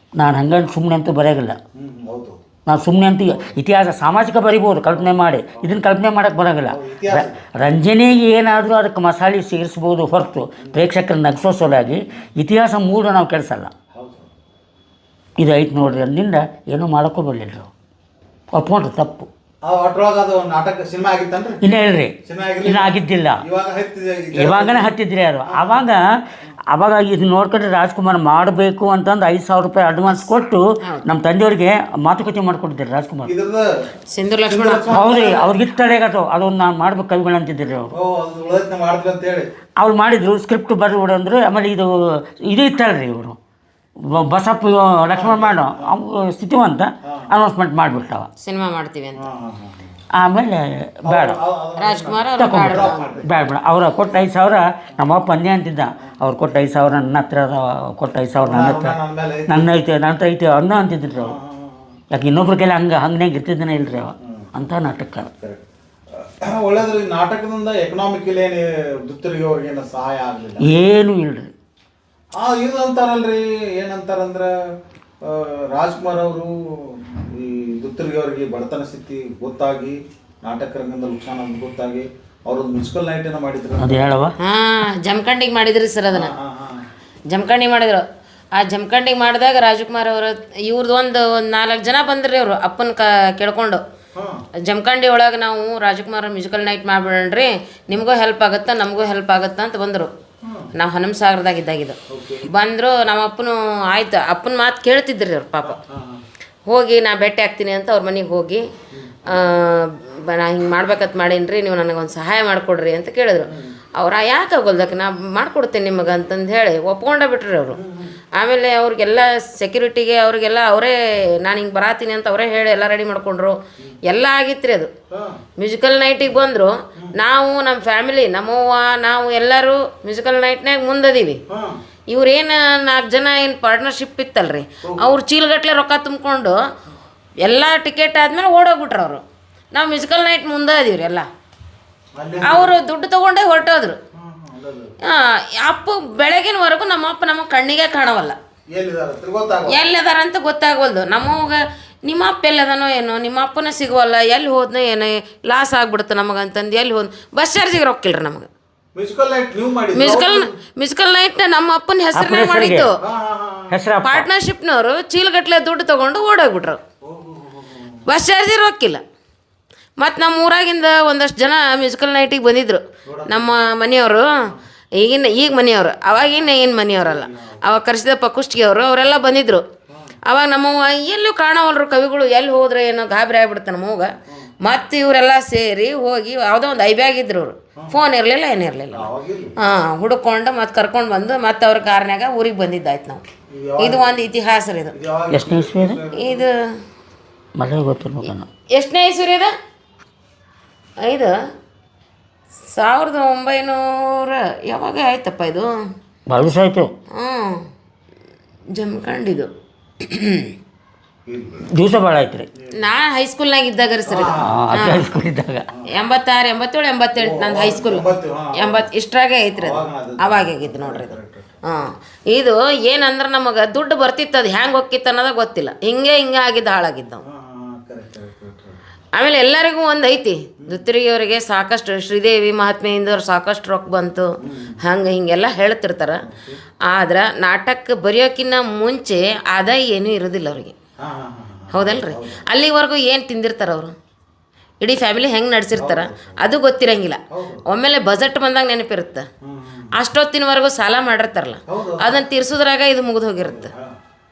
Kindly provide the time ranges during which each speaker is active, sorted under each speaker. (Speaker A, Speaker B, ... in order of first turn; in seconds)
Speaker A: 0.1-1.6, 2.6-13.7, 15.4-17.7, 18.5-19.3, 21.6-23.4, 24.3-26.1, 26.7-33.3, 34.9-37.9, 39.8-43.4, 44.0-48.3, 50.1-51.4, 52.4-61.4, 62.1-65.3, 70.6-71.5, 83.8-84.3, 162.1-162.9, 163.7-164.3, 195.3-196.0, 197.6-198.5, 206.3-206.9, 211.7-212.5, 214.4-215.7
Speaker B: 1.7-2.4, 4.9-5.8, 6.6-7.4, 13.9-14.3, 19.6-21.6, 22.2-24.9, 25.5-25.9, 33.2-33.9, 34.5-35.5, 37.9-39.5, 45.1-45.9, 47.0-47.3, 49.2-49.9, 51.0-53.4, 58.4-59.8, 61.2-62.0, 64.2-64.5, 65.4-70.7, 72.4-84.1, 86.1-86.8, 94.1-94.4, 100.4-100.7, 102.1-102.5, 105.6-106.2, 108.9-109.5, 113.5-113.8, 117.7-118.2, 125.1-125.4, 131.5-131.8, 134.8-135.1, 142.2-142.8, 144.1-144.9, 148.7-149.8, 158.9-160.6, 163.0-163.7, 167.0-168.1, 173.1-173.5, 176.9-177.6, 179.9-180.2, 188.9-189.5, 193.5-194.2, 194.9-196.5, 211.2-211.7, 214.1-214.7, 217.2-218.9, 219.6-221.5, 227.2-228.8, 234.4-234.8, 236.2-236.6, 241.0-242.4, 245.7-246.4, 247.3-247.6, 249.4-249.9, 251.7-252.2, 253.4-254.0
Speaker C: 34.1-35.0, 48.4-49.3, 51.8-53.2, 84.4-86.3, 87.3-93.8, 94.6-100.1, 100.7-105.8, 106.7-108.6, 109.3-117.8, 118.3-124.9, 125.6-131.4, 132.1-136.6, 137.4-141.3, 142.4-144.0, 145.0-148.4, 149.7-158.5, 159.9-163.0, 164.0-166.8, 168.1-169.0, 170.0-179.6, 180.2-193.2, 193.8-194.9, 196.1-196.7, 198.7-199.5, 201.0-201.3, 202.6-205.7, 207.1-207.7, 208.7-210.5, 212.7-215.1, 215.9-227.2, 229.1-236.3, 236.8-240.7, 241.7-243.9, 244.8-249.2, 249.9-253.7